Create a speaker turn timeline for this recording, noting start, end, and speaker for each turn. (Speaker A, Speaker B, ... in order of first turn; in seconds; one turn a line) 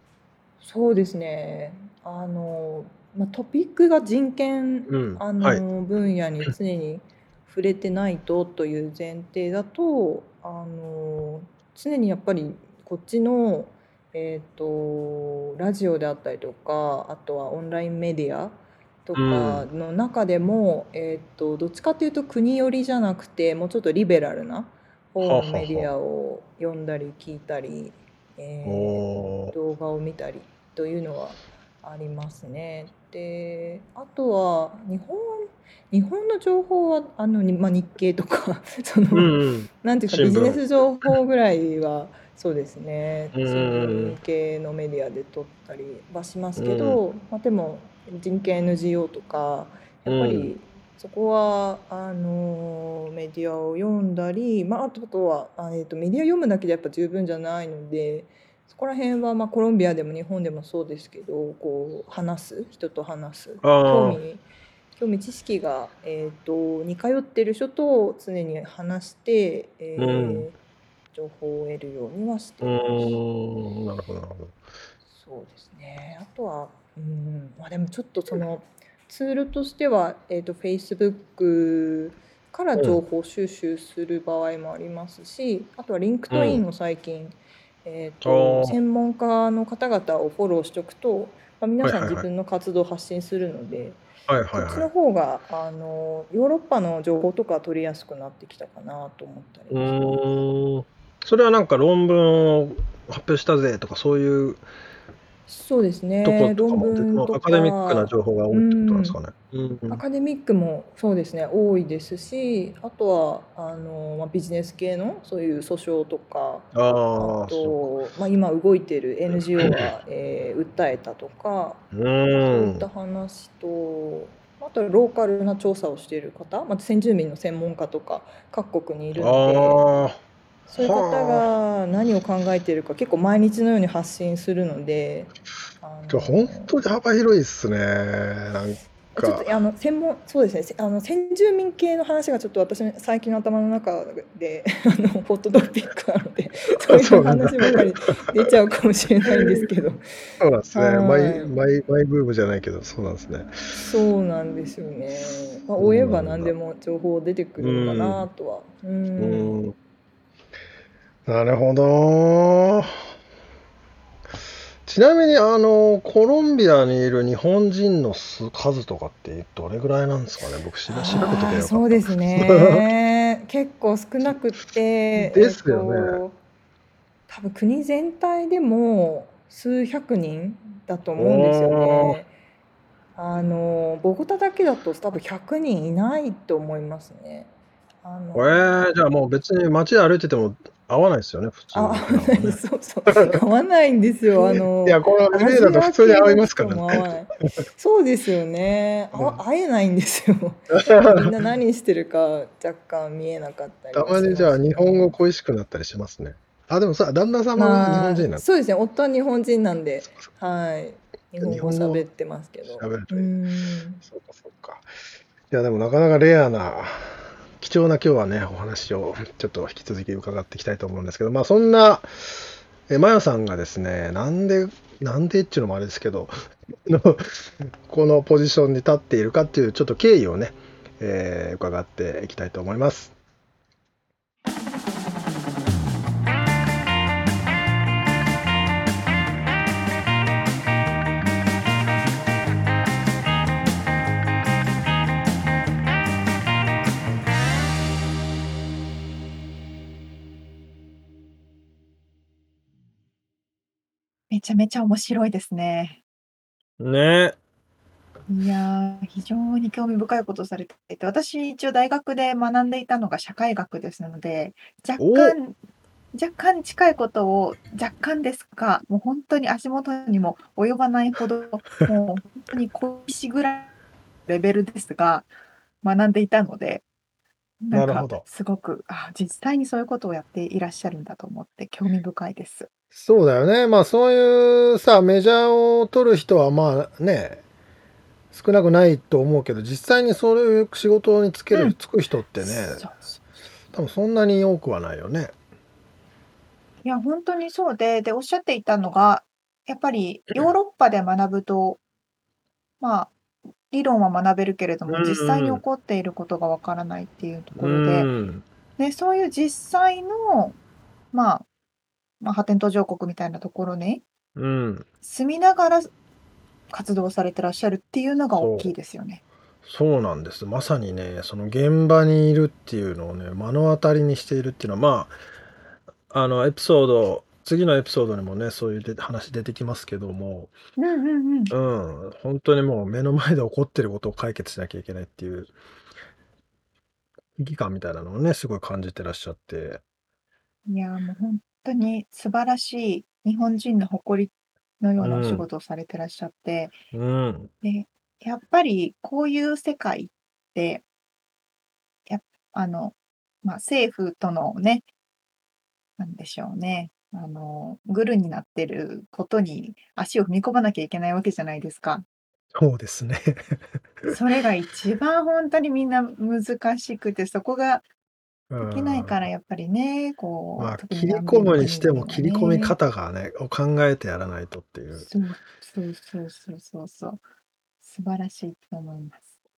Speaker A: 0.6-64.4
Speaker B: 4.9-5.6
Speaker B: 19.1-19.7
Speaker B: 25.2-25.9
Speaker B: 28.6-29.5
Speaker B: 39.1-40.6
Speaker B: 43.3-44.2
Speaker B: 46.6-47.0
Speaker B: 50.0-50.5
Speaker B: 63.6-64.2
Speaker A: 65.0-70.5
Speaker B: 70.0-70.5
Speaker A: 71.1-73.2
Speaker B: 72.6-74.6
Speaker A: 75.0-100.4
Speaker B: 86.3-86.6
Speaker B: 88.2-88.8
Speaker B: 91.8-92.2
Speaker B: 94.3-94.9
Speaker B: 99.7-104.6
Speaker A: 105.5-109.2
Speaker B: 106.2-110.0
Speaker A: 109.9-121.8
Speaker B: 116.7-117.9
Speaker B: 119.6-119.9
Speaker B: 121.9-122.9
Speaker A: 122.4-129.9
Speaker B: 129.2-130.2
Speaker A: 130.7-136.8
Speaker B: 130.7-131.5
Speaker B: 136.1-139.5
Speaker A: 139.2-150.0
Speaker B: 146.9-147.8
Speaker B: 150.4-153.5
Speaker A: 150.7-151.5
Speaker A: 153.7-159.6
Speaker B: 155.8-156.5
Speaker B: 157.6-158.3
Speaker B: 159.2-159.8
Speaker B: 161.2-163.0
Speaker B: 164.8-172.9
Speaker A: 170.9-176.4
Speaker B: 175.1-176.2
Speaker A: 177.3-182.3
Speaker B: 181.2-182.2
Speaker A: 183.1-187.5
Speaker A: 188.0-188.6
Speaker B: 188.3-193.4
Speaker A: 191.7-205.2
Speaker B: 194.3-197.1
Speaker B: 199.1-199.4
Speaker B: 200.7-201.3
Speaker B: 203.9-208.4
Speaker A: 207.6-214.0
Speaker B: 211.4-212.1
Speaker B: 212.7-213.3
Speaker B: 214.0-214.8
Speaker B: 215.5-226.3
Speaker B: 226.8-233.1
Speaker C: 254.3-256.0
Speaker B: 256.8-257.4
Speaker C: 258.3-265.6
Speaker B: 265.0-265.4
Speaker C: 266.1-273.7
Speaker C: 274.3-275.3
Speaker C: 275.8-276.8
Speaker C: 277.6-282.7
Speaker B: 277.7-278.2
Speaker B: 282.9-287.4
Speaker B: 288.3-292.8
Speaker C: 292.4-293.2
Speaker B: 293.7-295.3
Speaker C: 296.8-301.8
Speaker C: 302.8-303.1
Speaker C: 303.7-308.1
Speaker B: 304.9-305.6
Speaker B: 307.6-308.4
Speaker C: 308.8-310.6
Speaker C: 311.1-311.4
Speaker C: 312.2-314.0
Speaker B: 314.4-314.9
Speaker C: 315.0-315.9
Speaker C: 316.7-319.2
Speaker B: 318.4-318.7
Speaker B: 319.6-325.1
Speaker B: 326.1-330.5
Speaker C: 330.8-331.5
Speaker B: 331.5-335.5
Speaker B: 337.4-339.8
Speaker C: 340.7-346.7
Speaker B: 345.0-345.4
Speaker B: 346.9-347.5
Speaker C: 347.6-350.8
Speaker C: 352.1-354.9
Speaker C: 356.0-362.1
Speaker B: 362.5-364.1
Speaker C: 364.1-367.8
Speaker B: 368.5-369.2
Speaker C: 368.6-372.8
Speaker B: 370.6-375.1
Speaker C: 375.0-377.2
Speaker C: 377.8-379.3